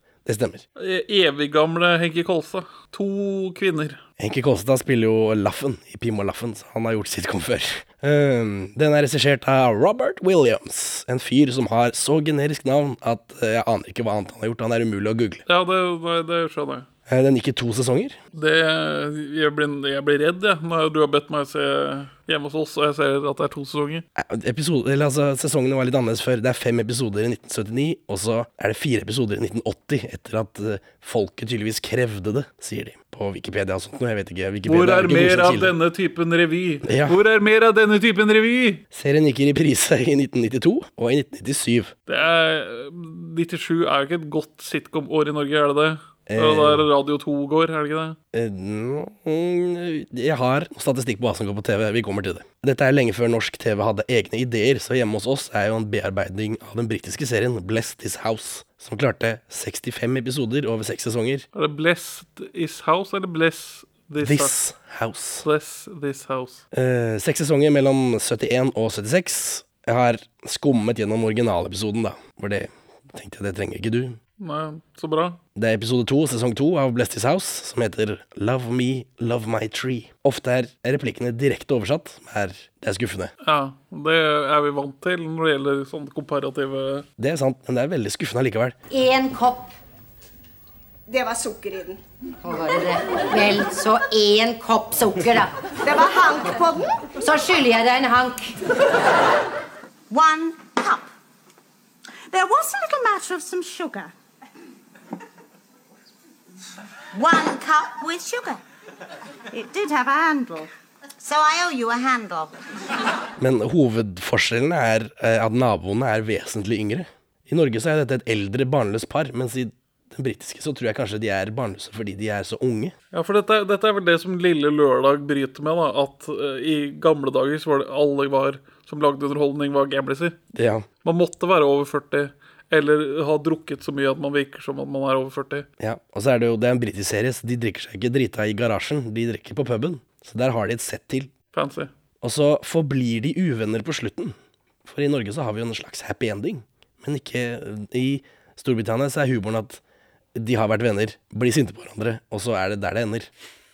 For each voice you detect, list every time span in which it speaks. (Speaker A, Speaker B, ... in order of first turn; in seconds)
Speaker A: 0.2-0.6, 4.2-15.4, 17.1-18.2, 24.1-35.7, 36.8-37.2, 38.9-41.9, 46.3-46.9, 48.3-61.4, 64.2-65.4, 66.7-74.2, 75.5-83.3, 87.2-88.8, 113.4-122.9, 130.5-130.8, 135.8-141.3, 142.2-149.8, 150.3-153.3
Speaker B: 0.8-4.0, 15.5-16.9, 18.3-24.0, 34.6-38.8, 42.1-48.2, 61.5-64.5, 65.4-66.6, 74.4-75.4, 83.4-87.0, 123.1-130.4, 131.0-135.7, 141.5-141.9
Speaker C: 88.9-89.7, 92.4-95.5, 97.2-98.5
Speaker D: 91.1-92.0, 95.8-97.1
Speaker E: 100.1-101.1, 102.3-104.1, 107.1-108.6, 109.5-112.5